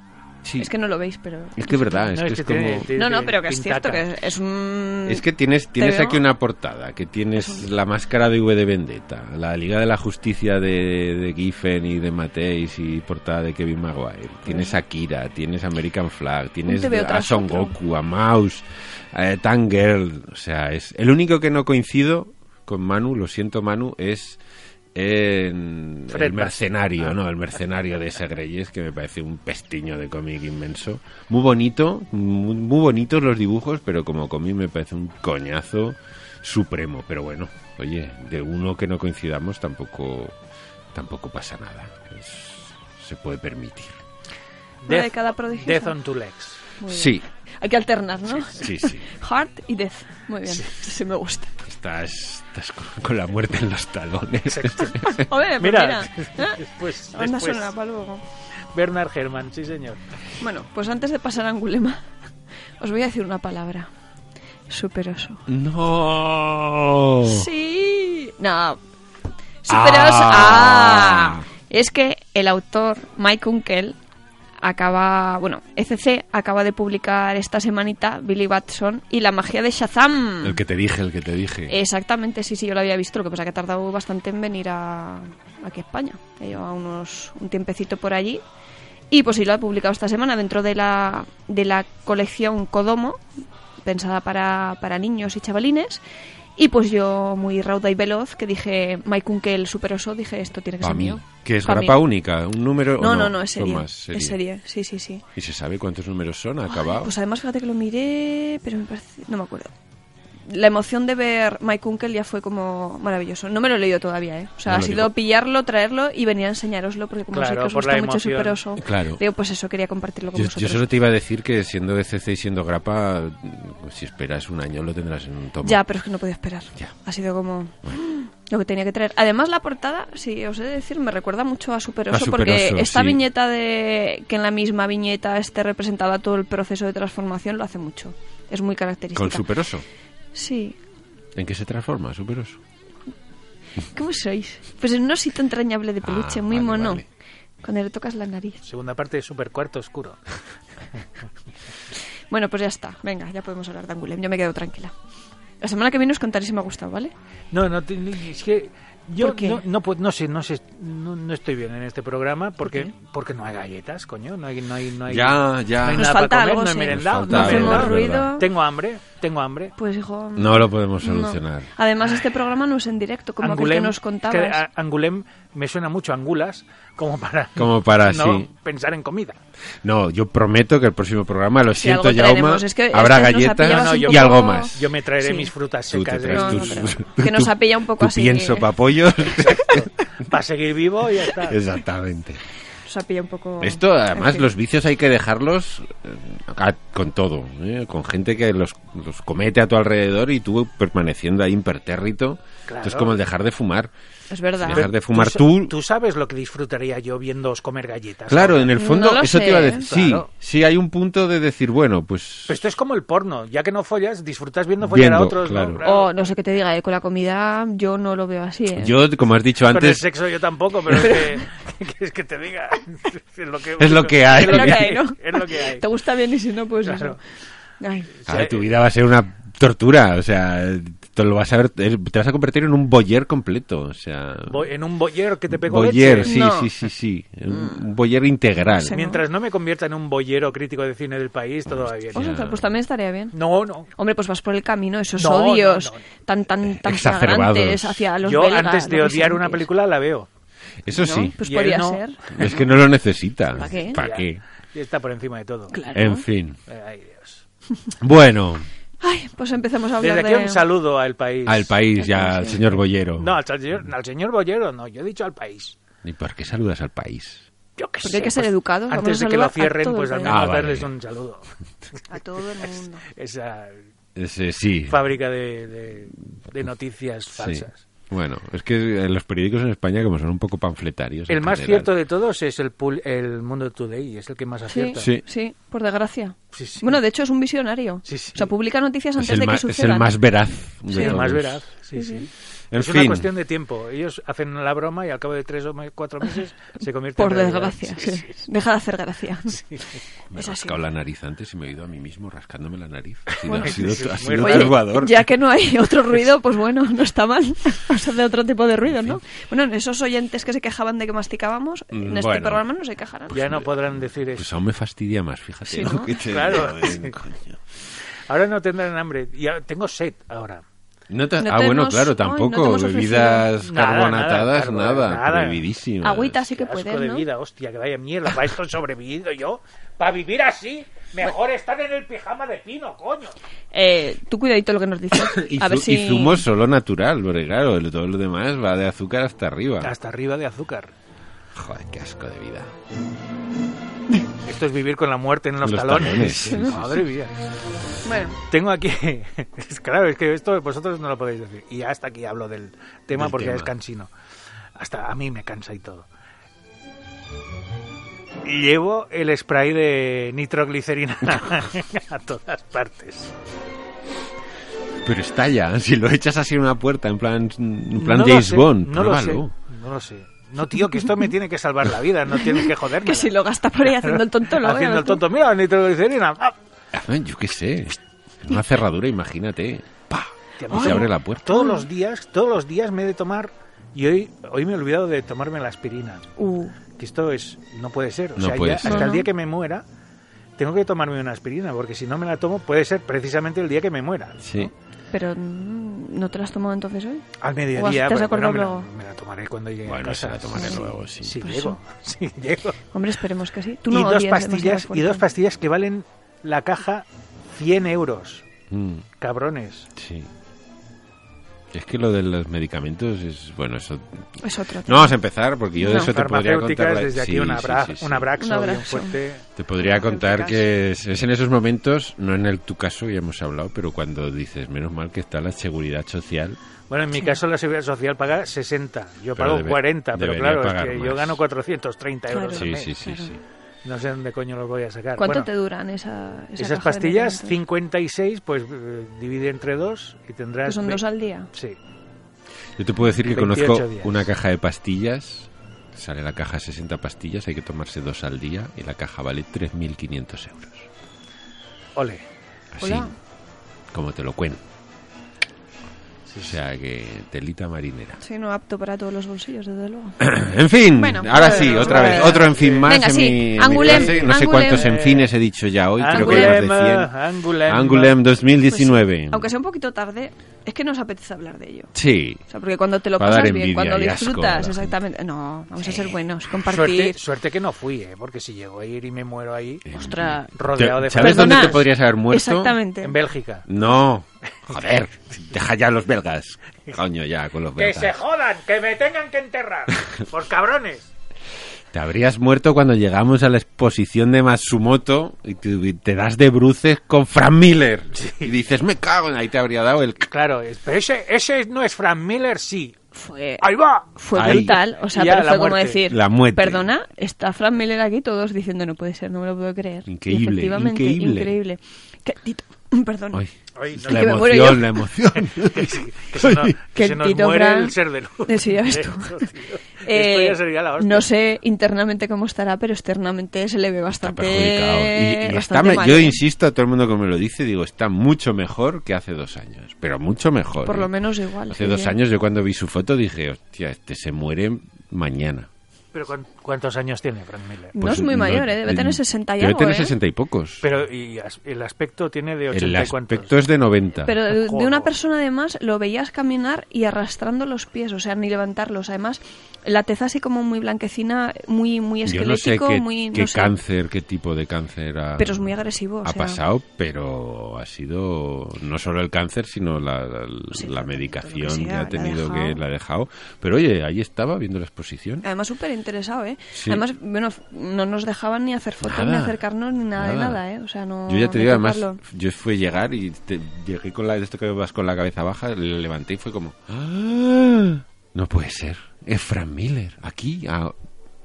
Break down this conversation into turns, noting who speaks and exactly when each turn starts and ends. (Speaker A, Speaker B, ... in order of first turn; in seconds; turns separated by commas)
Speaker A: 0.4-0.7, Speaker B: 0.6-2.1, Speaker A: 1.6-2.9, Speaker C: 2.1-4.0, Speaker B: 2.9-5.2, Speaker A: 5.1-24.4, Speaker B: 5.8-6.2, Speaker B: 7.3-7.7, Speaker B: 14.4-14.8, Speaker B: 16.7-17.7, Speaker A: 24.9-40.4, Speaker C: 26.1-27.1, Speaker A: 40.9-44.0, Speaker C: 44.8-46.6, Speaker B: 44.9-45.9, Speaker B: 46.8-51.5, Speaker A: 46.9-47.2, Speaker A: 48.5-49.0, Speaker A: 51.6-55.2, Speaker C: 54.5-57.7, Speaker B: 55.1-56.6, Speaker B: 57.1-58.2, Speaker C: 58.7-60.0, Speaker B: 60.4-62.0, Speaker B: 62.8-63.9, Speaker B: 64.7-65.4, Speaker A: 65.5-67.5, Speaker B: 67.2-68.8, Speaker B: 69.6-74.0, Speaker A: 69.7-71.4, Speaker B: 74.6-80.6, Speaker A: 80.4-81.7, Speaker B: 81.7-88.4, Speaker B: 89.1-93.2, Speaker B: 93.8-96.0, Speaker B: 96.6-102.0, Speaker A: 100.8-104.4, Speaker B: 103.0-105.2, Speaker A: 105.3-107.1, Speaker B: 106.7-109.7, Speaker B: 110.5-120.9, Speaker A: 114.7-115.1, Speaker C: 117.3-118.6, Speaker A: 118.8-119.2, Speaker A: 120.3-125.8, Speaker B: 125.6-139.4, Speaker A: 132.1-133.2, Speaker A: 139.1-139.8, Speaker B: 140.3-140.8, Speaker A: 141.3-142.6, Speaker B: 143.9-147.0, Speaker A: 146.0-147.1, Speaker B: 147.6-148.6, Speaker C: 148.6-150.2, Speaker B: 152.3-154.9, Speaker B: 155.6-157.1, Speaker C: 157.5-169.7, Speaker B: 159.2-159.6, Speaker B: 162.6-162.9, Speaker A: 165.1-166.2, Speaker B: 165.9-168.5, Speaker A: 166.9-168.3, Speaker B: 169.8-174.6, Speaker A: 170.3-171.7, Speaker C: 173.4-179.4, Speaker A: 177.6-178.5, Speaker A: 179.8-184.9, Speaker B: 181.8-185.5, Speaker C: 183.6-186.9, Speaker A: 185.9-189.8, Speaker B: 186.3-188.7, Speaker C: 189.4-191.6, Speaker A: 191.4-192.4, Speaker B: 192.8-194.5, Speaker A: 193.6-203.9, Speaker C: 202.7-203.2, Speaker B: 204.3-204.9, Speaker A: 204.6-205.7, Speaker C: 204.7-208.7, Speaker A: 208.3-212.6, Speaker B: 208.8-209.9, Speaker C: 209.9-210.2, Speaker C: 212.5-216.3, Speaker A: 214.8-215.8, Speaker B: 215.8-218.9, Speaker A: 218.7-220.1, Speaker C: 219.7-225.8, Speaker A: 223.8-224.9, Speaker B: 224.3-227.2, Speaker C: 226.8-227.2, Speaker B: 227.8-228.1, Speaker C: 228.2-228.7, Speaker A: 228.2-234.7, Speaker C: 234.4-236.3, Speaker A: 235.5-238.9, Speaker B: 236.2-236.7, Speaker B: 237.5-237.8, Speaker B: 238.7-239.2, Speaker C: 238.9-242.2, Speaker A: 241.7-242.7, Speaker B: 242.1-243.3, Speaker C: 243.3-243.9, Speaker B: 243.9-249.6, Speaker C: 245.2-246.0, Speaker A: 246.6-248.1, Speaker C: 248.2-250.3, Speaker A: 250.8-251.4, Speaker B: 251.0-252.6, Speaker C: 251.4-252.0, Speaker A: 252.3-254.4, Speaker B: 253.6-254.0, Speaker C: 253.9-255.7, Speaker B: 255.7-256.2, Speaker A: 255.9-256.6, Speaker C: 256.7-257.4, Speaker A: 258.0-258.7, Speaker B: 259.0-260.6, Speaker C: 260.0-261.8, Speaker A: 261.4-263.3, Speaker B: 262.0-262.6, Speaker C: 263.2-265.8, Speaker A: 266.0-267.4, Speaker C: 267.8-271.5, Speaker B: 268.0-270.4, Speaker A: 270.2-270.9, Speaker B: 272.1-273.0, Speaker C: 272.6-273.8, Speaker A: 274.1-275.0, Speaker C: 274.9-277.8, Speaker A: 277.4-281.9, Speaker C: 281.3-285.1, Speaker B: 284.7-290.1, Speaker A: 285.0-285.2, Speaker C: 286.5-287.0, Speaker C: 288.1-288.5, Speaker A: 289.2-291.6, Speaker B: 290.9-291.2, Speaker C: 290.9-298.4, Speaker B: 291.9-292.3, Speaker A: 292.7-293.3, Speaker B: 297.2-299.6, Speaker C: 299.5-299.8, Speaker A: 300.3-305.3, Speaker B: 300.4-300.8, Speaker C: 303.3-304.8, Speaker B: 303.5-313.3, Speaker A: 308.8-309.2, Speaker A: 311.9-312.6, Speaker A: 313.3-317.6, Speaker C: 313.3-314.5, Speaker B: 315.7-316.1, Speaker C: 316.2-317.1, Speaker C: 318.3-320.6, Speaker A: 321.1-326.4, Speaker B: 321.4-323.5, Speaker C: 323.6-325.6, Speaker B: 326.0-327.2, Speaker C: 326.5-333.3, Speaker B: 333.7-336.4, Speaker A: 335.2-339.9, Speaker C: 339.8-340.9, Speaker A: 341.5-342.7, Speaker C: 344.4-347.3, Speaker A: 345.6-347.0, Speaker B: 346.4-346.7, Speaker B: 348.0-348.4, Speaker C: 348.5-354.1, Speaker A: 353.1-353.7, Speaker C: 354.8-356.1, Speaker C: 358.4-363.3, Speaker A: 365.0-369.5, Speaker C: 367.9-376.6, Speaker B: 372.6-375.2, Speaker A: 376.9-381.6, Speaker C: 380.6-386.3, Speaker B: 380.7-381.8, Speaker B: 386.4-386.7, Speaker C: 387.0-389.8, Speaker A: 388.4-389.1, Speaker B: 388.8-389.3, Speaker C: 390.6-394.7, Speaker A: 394.4-394.7, Speaker B: 395.1-398.9, Speaker C: 397.4-402.8, Speaker A: 399.9-401.4, Speaker B: 400.5-400.8, Speaker B: 401.4-401.8, Speaker B: 402.9-405.2, Speaker C: 403.9-408.4, Speaker A: 408.7-409.1, Speaker C: 409.2-409.9, Speaker A: 409.9-410.3, Speaker A: 411.7-414.2, Speaker B: 414.4-415.2, Speaker A: 414.8-418.3, Speaker B: 415.8-416.1, Speaker C: 415.9-419.4, Speaker B: 418.4-419.1, Speaker A: 419.6-426.6, Speaker B: 419.8-420.6, Speaker C: 426.9-432.9, Speaker A: 429.4-431.4, Speaker B: 432.3-433.3, Speaker A: 432.5-433.4, Speaker C: 433.8-435.5, Speaker B: 435.2-437.6, Speaker C: 436.6-441.8, Speaker B: 440.6-441.5, Speaker A: 442.8-450.9, Speaker C: 443.2-444.3, Speaker C: 451.9-452.2, Speaker A: 452.7-453.1, Speaker B: 452.8-453.1, Speaker A: 453.9-454.6, Speaker C: 456.3-456.6, Speaker A: 456.4-458.2, Speaker B: 458.2-460.4, Speaker A: 460.2-467.1, Speaker B: 460.9-464.9, Speaker C: 461.4-462.9, Speaker C: 463.7-465.3, Speaker C: 466.0-468.1, Speaker B: 466.1-466.6, Speaker A: 467.6-469.5, Speaker B: 468.7-471.9, Speaker A: 471.9-472.4, Speaker B: 472.5-477.2, Speaker A: 473.2-474.9, Speaker C: 476.5-479.9, Speaker A: 479.9-482.8, Speaker B: 479.9-480.5, Speaker C: 480.5-481.9, Speaker B: 481.1-483.1, Speaker C: 483.0-483.7, Speaker A: 483.7-488.1, Speaker C: 487.8-491.1, Speaker A: 491.9-500.3, Speaker C: 498.1-498.5, Speaker C: 500.3-502.9, Speaker B: 503.1-503.6, Speaker C: 503.6-506.0, Speaker B: 504.1-513.4, Speaker A: 504.3-504.8, Speaker A: 506.1-506.9, Speaker A: 510.1-511.5, Speaker A: 513.3-516.7, Speaker C: 513.8-521.3, Speaker B: 514.1-514.9, Speaker B: 516.9-517.9, Speaker B: 518.5-519.5, Speaker B: 520.0-526.4, Speaker A: 524.2-531.1, Speaker B: 530.8-532.2, Speaker A: 531.7-535.7, Speaker C: 536.1-538.0, Speaker B: 538.0-540.1, Speaker A: 538.0-540.9, Speaker C: 540.8-543.6, Speaker A: 542.7-544.3, Speaker B: 544.2-553.7, Speaker C: 544.5-545.1, Speaker A: 552.2-555.7, Speaker B: 555.4-556.6, Speaker A: 556.2-565.4, Speaker B: 560.7-562.8, Speaker B: 565.4-572.2, Speaker A: 566.7-567.0, Speaker A: 569.0-569.6, Speaker A: 570.1-570.6, Speaker A: 571.3-581.0